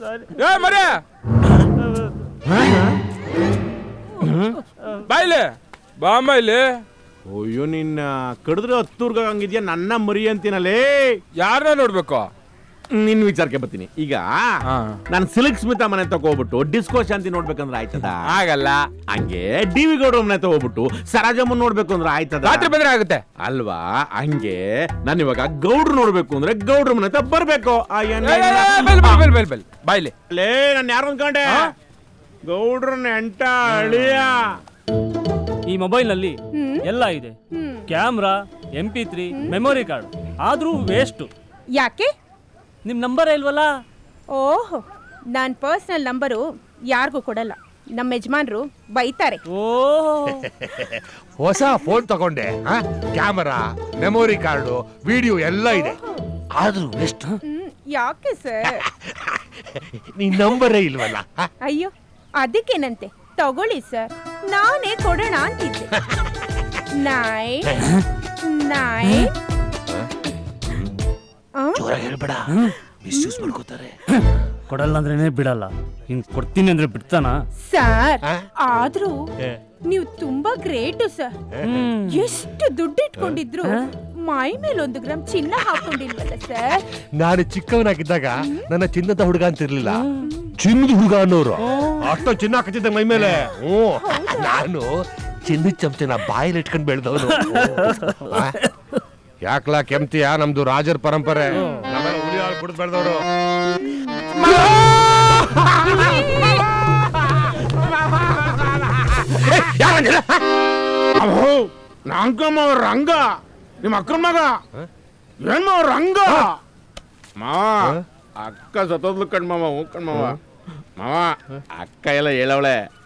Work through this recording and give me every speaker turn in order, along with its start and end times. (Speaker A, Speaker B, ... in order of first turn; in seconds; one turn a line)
Speaker A: 0.4-1.0
Speaker B: 2.5-2.8
Speaker A: 5.1-6.8
Speaker B: 7.3-11.2
Speaker A: 11.4-12.3
Speaker B: 12.9-14.3
Speaker A: 14.7-15.0
Speaker B: 15.1-18.2
Speaker A: 18.2-18.8
Speaker B: 19.1-22.7
Speaker A: 22.4-23.2
Speaker B: 23.4-29.3
Speaker A: 28.2-30.1
Speaker B: 30.3-31.7
Speaker B: 32.5-34.4
Speaker C: 35.7-36.3
Speaker D: 36.5-36.8
Speaker C: 36.9-37.3
Speaker D: 37.5-37.9
Speaker C: 37.9-41.3
Speaker D: 39.3-39.6
Speaker D: 41.8-42.1
Speaker C: 42.9-43.7
Speaker D: 44.3-44.8
Speaker D: 45.3-49.4
Speaker C: 49.5-50.5
Speaker E: 50.3-56.0
Speaker E: 56.5-57.4
Speaker D: 57.4-58.8
Speaker E: 59.0-61.5
Speaker D: 61.6-65.9
Speaker D: 67.0-67.8
Speaker D: 68.4-69.3
Speaker D: 71.6-71.8
Speaker E: 71.7-73.9
Speaker C: 76.6-77.0
Speaker D: 77.7-79.2
Speaker D: 79.8-81.3
Speaker E: 81.6-81.9
Speaker C: 81.7-82.2
Speaker D: 82.0-86.8
Speaker E: 87.2-94.9
Speaker D: 94.0-94.5
Speaker E: 95.4-98.6
Speaker E: 99.4-103.2
Speaker B: 104.3-109.8
Speaker E: 109.6-110.4
Speaker B: 111.1-113.3
Speaker B: 113.8-114.5
Speaker B: 115.4-116.5
Speaker B: 117.4-120.4
Speaker B: 121.0-122.8